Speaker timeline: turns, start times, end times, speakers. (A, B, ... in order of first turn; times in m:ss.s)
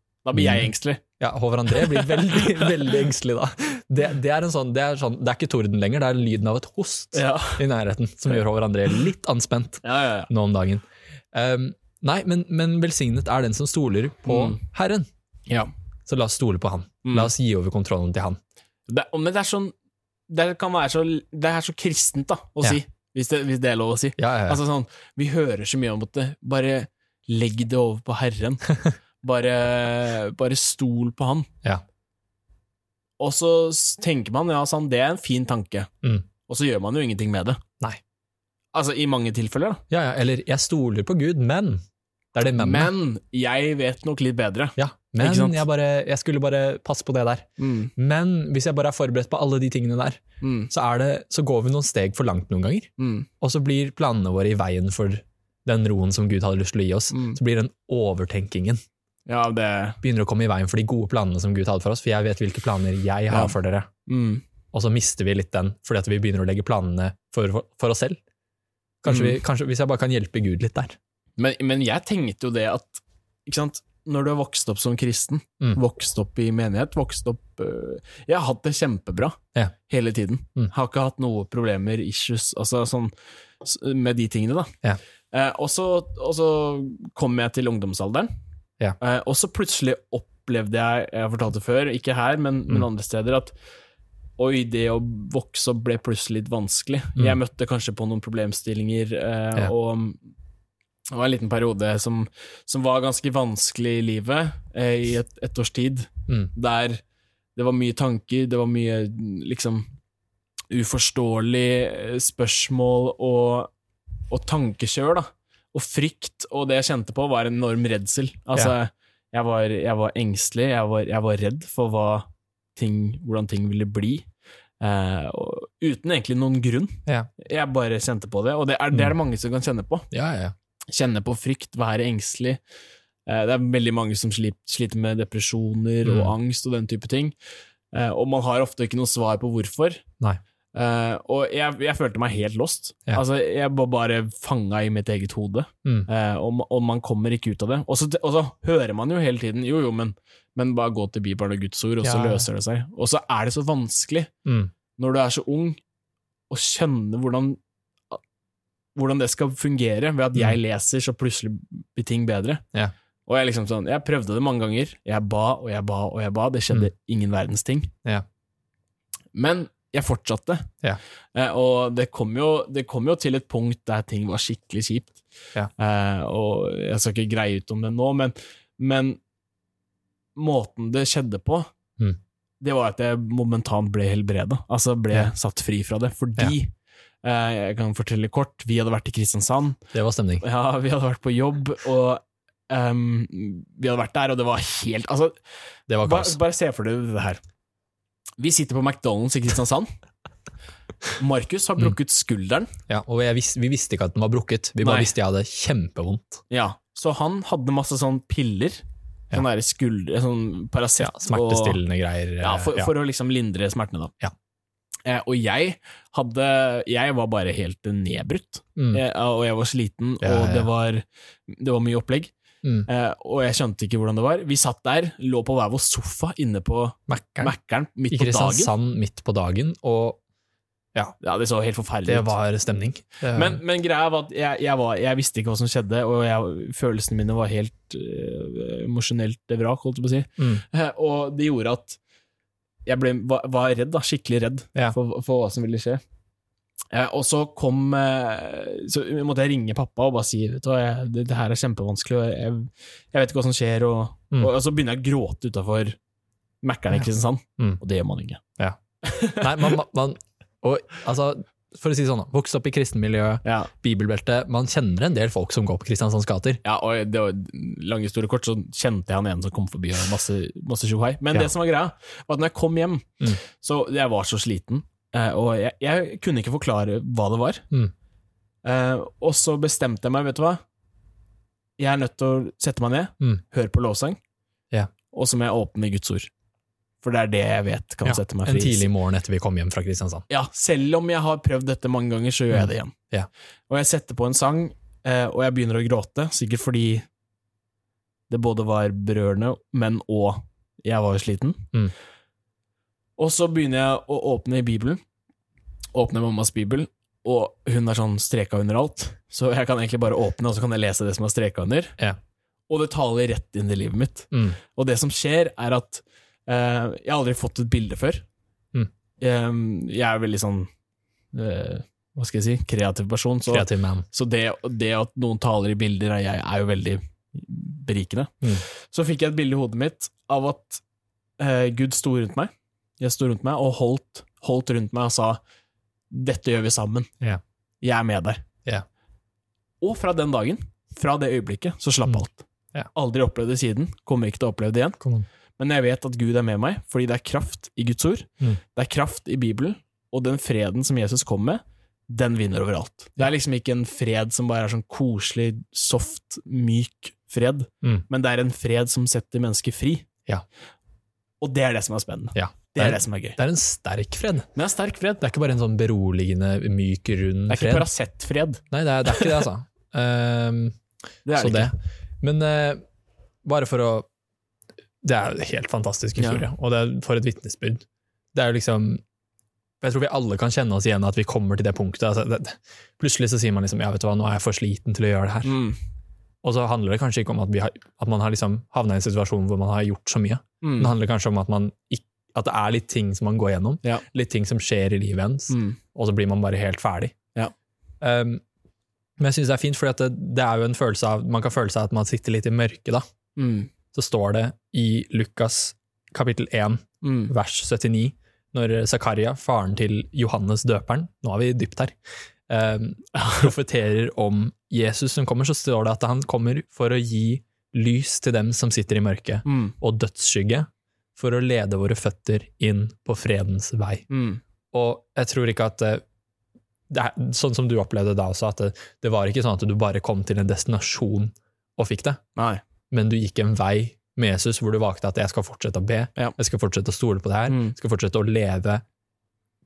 0:00.2-0:01.0 A
0:00.3-0:15.1 B
0:01.7-0:02.7 A
0:07.1-0:07.6 A
0:09.8-0:10.3 A
0:14.3-0:14.6 A
0:16.1-0:18.4 B
0:17.0-0:17.3 A
0:18.9-0:19.7 A
0:20.3-0:31.5 A
0:24.2-0:24.6 B
0:33.2-0:35.9 A
0:36.5-0:37.6 A
0:38.7-0:39.8 A
0:39.9-0:41.8 B
0:42.3-0:42.9 B
0:42.5-0:45.6 A
0:44.8-0:52.9 B
0:47.6-0:47.9 A
0:50.4-0:50.7 A
0:53.0-0:53.3 A
0:53.4-0:58.8 B
0:57.1-0:57.4 A
0:59.3-1:00.0 A
1:00.0-1:03.9 B
1:04.1-1:04.4 A
1:04.7-1:08.2 B
1:09.0-1:11.0 B
1:09.1-1:09.4 A
1:11.4-1:24.7 A
1:25.3-1:28.3 A
1:29.0-1:33.5 A
1:34.4-1:40.2 A
1:41.1-1:47.0 A
1:47.6-1:49.9 A
1:50.7-1:53.7 A
1:54.3-2:04.3 A
2:04.8-2:10.1 A
2:10.1-2:10.5 B
2:10.9-2:12.6 A
2:13.2-2:17.3 A
2:16.0-2:16.3 B
2:17.9-2:20.0 A
2:20.7-2:34.3 A
2:32.0-2:32.4 B
2:34.4-2:34.7 B
2:35.0-2:35.8 A
2:36.5-2:37.6 A
2:39.0-2:42.6 A
2:43.2-2:47.9 A
2:49.3-2:50.7 A
2:51.3-2:55.2 A
2:55.8-2:59.2 A
3:00.4-3:01.7 A
3:02.6-3:06.7 A
3:07.2-3:09.8 A
3:09.9-3:10.4 B
3:10.4-3:15.4 A
3:15.9-3:16.4 B
3:16.0-3:17.4 A
3:18.4-3:19.9 A
3:21.2-3:22.7 A
3:22.9-3:26.4 B
3:24.8-3:25.1 A
3:26.5-3:31.8 A
3:31.0-3:32.9 B
3:32.4-3:34.1 A
3:35.0-3:42.3 A
3:38.8-3:39.0 B
3:40.2-3:40.7 B
3:42.8-3:48.7 A
3:47.1-3:47.5 B
3:48.1-3:50.2 B
3:51.2-3:52.3 A
3:52.0-3:53.6 B
3:53.3-4:02.0 A
4:02.8-4:06.0 A
4:06.9-4:16.0 A
4:16.6-4:18.4 A
4:19.0-4:19.8 A
4:19.3-4:26.6 B
4:23.4-4:23.7 A
4:26.6-4:37.6 A
4:38.6-4:40.6 A
4:41.8-4:44.2 A
4:45.1-4:46.3 A
4:47.0-4:48.9 A
4:48.0-4:50.3 B
4:50.3-4:52.9 A
4:52.5-4:53.3 B
4:53.7-4:57.0 A
4:58.3-5:01.7 A
5:03.2-5:05.0 A
5:05.9-5:12.0 A
5:12.7-5:18.2 A
5:14.3-5:14.6 B
5:19.2-5:20.7 A
5:21.3-5:30.8 A
5:23.5-5:24.0 B
5:31.4-5:35.4 A
5:36.1-5:37.1 A
5:37.8-5:38.4 A
5:39.8-5:45.0 A
5:45.0-5:45.2 B
5:45.6-6:00.0 A
6:01.4-6:03.4 A
6:02.3-6:04.5 B
6:04.5-6:05.2 A
6:05.2-6:07.9 B
6:07.5-6:09.4 A
6:08.7-6:10.8 B
6:11.2-6:11.7 A
6:11.3-6:12.8 B
6:13.4-6:14.0 B
6:15.0-6:19.0 B
6:16.2-6:16.4 A
6:19.8-6:25.6 B
6:25.4-6:25.8 A
6:26.4-6:37.1 B
6:30.6-6:30.9 A
6:35.5-6:35.8 A
6:38.0-6:38.4 B
6:39.2-6:43.0 B
6:43.4-6:43.7 A
6:43.9-6:51.9 B
6:47.0-6:47.3 A
6:52.5-7:04.0 B
6:53.1-6:53.5 A
6:59.4-6:59.8 A
7:04.1-7:04.4 A
7:04.7-7:06.0 B
7:06.9-7:12.2 B
7:12.4-7:12.6 A
7:12.9-7:18.8 B
7:17.5-7:17.7 A